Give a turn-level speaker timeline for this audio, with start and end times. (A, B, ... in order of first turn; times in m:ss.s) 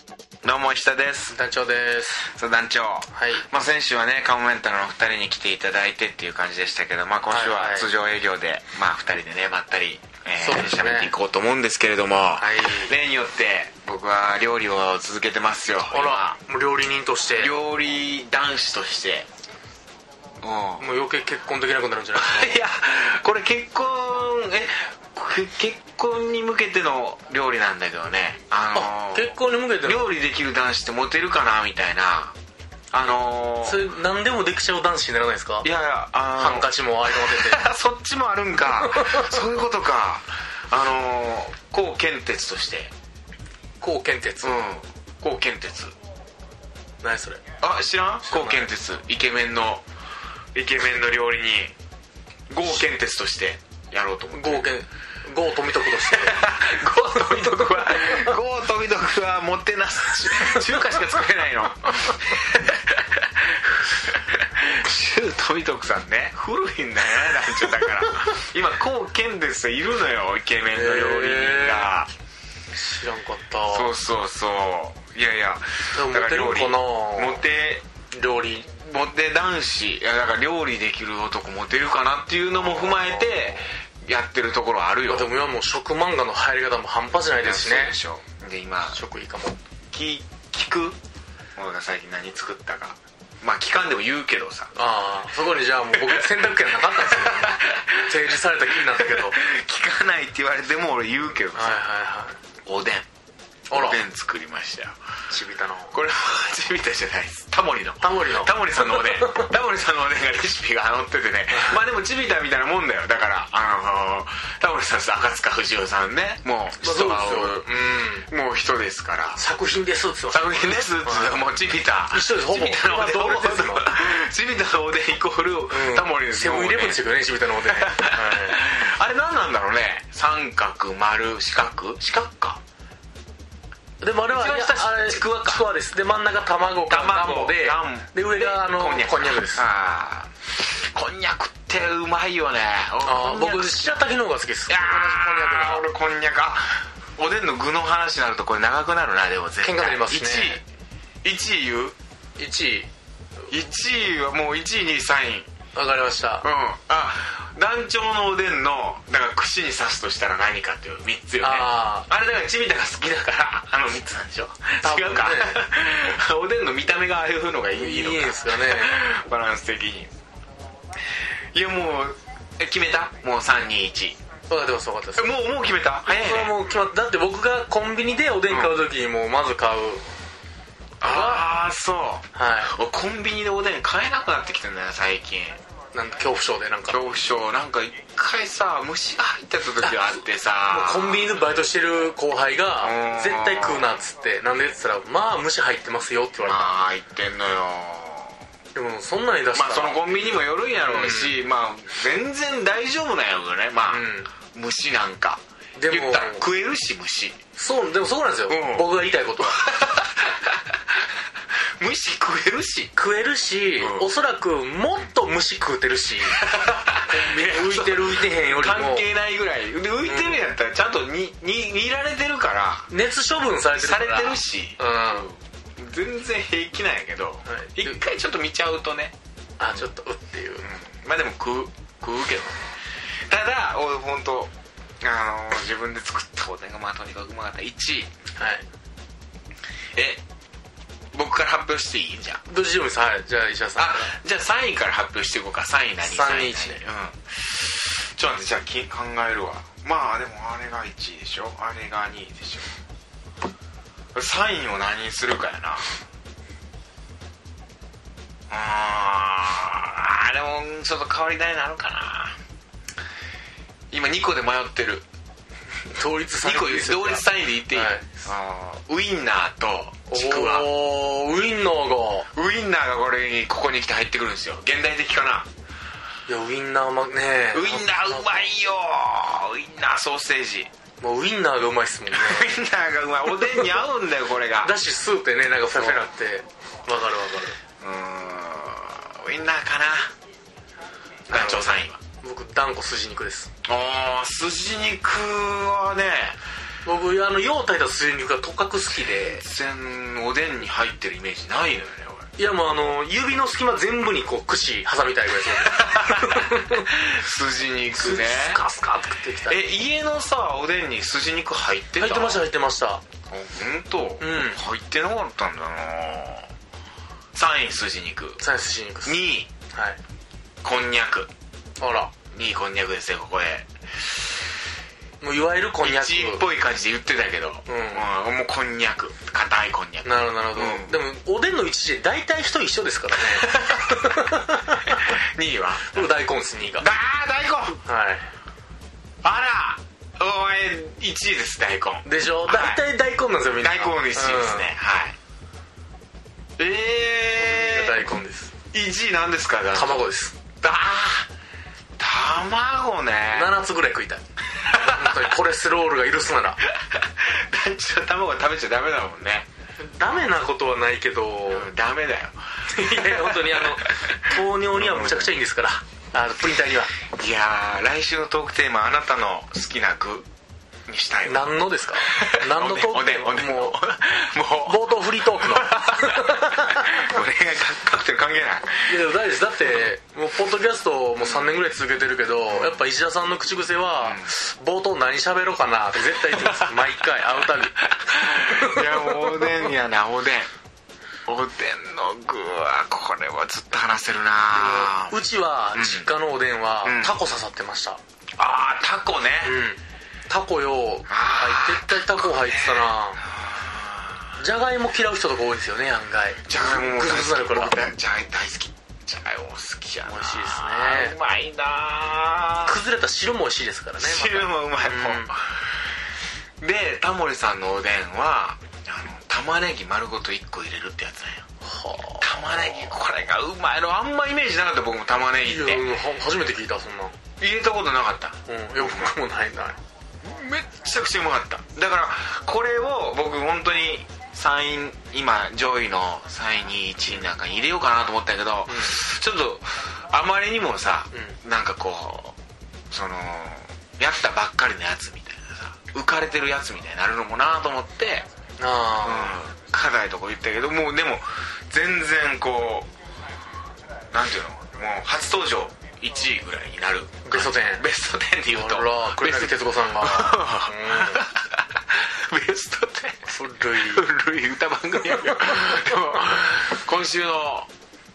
0:00.4-0:01.4 A
0:01.3-0:02.2 B
0:02.2-0:16.4 A
0:03.1-0:03.4 B
0:07.3-0:07.9 B
0:10.4-0:11.1 B
0:12.4-0:12.9 B
0:15.9-0:17.5 B
0:17.4-0:19.3 A
0:20.4-0:20.8 A
0:20.8-0:22.5 B
0:22.1-0:29.3 A
0:28.7-0:30.1 B
0:29.8-0:32.4 A
0:32.9-0:33.8 A
0:33.6-0:35.7 B
0:35.6-0:42.9 A
0:36.4-0:37.6 B
0:38.8-0:39.2 B
0:43.8-0:44.6 B
0:44.4-0:45.9 A
0:47.0-0:47.4 B
0:47.6-0:49.8 A
0:48.2-0:48.7 B
0:50.5-0:51.7 A
0:52.5-0:54.7 A
0:54.3-0:56.5 B
0:56.0-1:12.1 A
0:57.1-0:58.3 B
1:10.7-1:11.9 B
1:12.7-1:13.9 B
1:13.7-1:17.8 A
1:15.9-1:17.4 B
1:18.1-1:18.7 B
1:18.7-1:25.3 A
1:22.5-1:23.6 B
1:25.1-1:28.0 B
1:27.4-1:29.0 A
1:28.9-1:29.6 B
1:29.9-1:31.0 A
1:31.6-1:34.7 A
1:34.7-1:39.4 B
1:37.1-1:38.1 A
1:38.9-1:41.8 A
1:41.5-1:42.4 B
1:42.6-1:43.1 A
1:43.7-1:44.0 B
1:43.7-1:44.9 A
1:45.3-1:45.9 B
1:45.9-1:57.7 A
1:48.0-1:49.5 B
1:51.5-1:51.8 B
1:56.8-1:58.3 B
1:58.3-1:59.4 A
1:59.4-2:01.4 B
2:00.3-2:07.0 A
2:02.1-2:04.0 B
2:05.7-2:08.6 B
2:07.7-2:12.6 A
2:14.0-2:19.6 B
2:14.3-2:15.7 A
2:16.8-2:24.1 A
2:23.0-2:25.9 B
2:24.7-2:30.6 A
2:29.6-2:30.6 B
2:31.2-2:31.9 A
2:32.4-2:32.9 B
2:33.5-2:35.5 A
2:35.7-2:36.4 B
2:36.4-2:50.1 A
2:41.4-2:42.1 B
2:44.8-2:45.6 B
2:47.7-2:49.1 B
2:51.5-2:54.2 A
2:54.5-2:55.3 B
2:55.2-2:56.5 A
2:56.0-3:00.0 B
2:58.5-2:58.7 A
3:01.0-3:05.6 A
3:01.0-3:01.5 B
3:02.3-3:02.7 B
3:05.9-3:07.0 B
3:06.9-3:11.3 A
3:09.8-3:10.2 B
3:10.7-3:16.7 B
3:12.8-3:14.0 A
3:16.4-3:18.4 A
3:18.7-3:20.2 B
3:19.5-3:27.4 A
3:20.7-3:21.4 B
3:23.9-3:24.3 B
3:25.8-3:26.4 B
3:27.6-3:29.6 B
3:28.5-3:30.6 A
3:31.8-3:32.9 A
3:33.0-3:36.4 B
3:33.8-3:34.1 A
3:36.3-3:42.9 A
3:37.0-3:39.1 B
3:40.0-3:40.4 B
3:42.9-3:45.3 B
3:43.8-3:49.1 A
3:47.5-3:48.0 B
3:49.6-3:50.6 B
3:50.6-3:52.6 A
3:53.3-3:58.1 A
3:58.4-3:58.6 B
4:00.0-4:00.2 A
4:01.1-4:02.4 A
4:02.5-4:04.1 B
4:03.8-4:12.7 A
4:06.0-4:06.8 B
4:14.1-4:16.0 A
4:18.5-4:22.4 A
4:23.9-4:25.0 A
4:25.9-4:28.1 B
4:26.4-4:30.7 A
4:30.1-4:32.3 B
4:32.3-4:35.5 A
4:36.3-4:38.3 B
4:37.5-4:40.7 A
4:41.0-4:42.5 B
4:42.1-4:44.7 A
4:43.4-4:43.8 B
4:44.6-4:47.6 B
4:45.7-4:46.1 A
4:47.8-4:50.1 A
4:51.3-4:52.0 A
4:51.3-4:53.5 B
4:53.6-4:56.4 A
4:56.8-4:59.4 B
4:59.2-5:02.3 A
5:02.4-5:06.9 B
5:05.8-5:08.6 A
5:07.9-5:09.6 B
5:09.5-5:12.4 A
5:12.0-5:13.0 B
5:13.3-5:16.5 A
5:14.2-5:14.6 B
5:17.3-5:18.4 A
5:18.4-5:20.0 B
5:19.0-5:19.5 A
5:20.6-5:21.3 A
5:21.8-5:22.1 B
5:22.3-5:23.7 A
5:25.2-5:26.4 B
5:25.8-5:31.0 A
5:27.7-5:28.0 B
5:30.0-5:35.2 B
5:33.4-5:34.2 A
5:34.9-5:36.1 A
5:35.9-5:36.9 B
5:36.8-5:37.8 A
5:37.8-5:38.3 B
5:39.2-5:42.8 A
5:42.0-5:44.7 B
5:43.6-5:45.2 A
5:46.6-5:48.1 A
5:47.4-5:48.5 B
5:48.7-5:50.0 A
5:49.7-5:50.4 B
5:50.6-5:51.3 A
5:52.0-5:53.5 A
5:53.3-5:56.6 B
5:54.7-5:55.1 A
5:56.7-5:59.5 A
5:59.8-6:01.7 B
6:01.5-6:05.3 A
6:02.7-6:06.9 B
6:07.1-6:10.3 A
6:10.8-6:18.9 A
6:11.2-6:13.8 B
6:14.6-6:17.2 B
6:18.8-6:27.8 B
6:21.2-6:21.5 A
6:22.5-6:22.8 A
6:28.0-6:30.5 A
6:28.4-6:29.6 B
6:31.2-6:36.1 A
6:34.5-6:38.0 B
6:36.8-6:37.1 A
6:38.4-6:39.6 A
6:39.4-6:43.2 B
6:41.1-6:44.3 A
6:44.4-6:47.8 B
6:46.5-6:52.7 A
6:50.0-6:51.2 B
6:52.6-6:55.3 B
6:54.0-6:55.7 A
6:56.6-7:01.5 A
7:01.6-7:02.9 B
7:02.2-7:05.8 A
7:05.4-7:07.2 B
7:07.4-7:09.1 A
7:08.4-7:09.8 B
7:10.2-7:22.4 A
7:18.7-7:19.0 B
7:21.1-7:21.4 B
7:22.9-7:28.2 A
7:28.6-7:29.4 B
7:29.0-7:32.9 A
7:34.1-7:47.7 A
7:37.2-7:37.8 B
7:38.5-7:41.2 B
7:43.2-7:44.1 B
7:45.2-7:45.7 B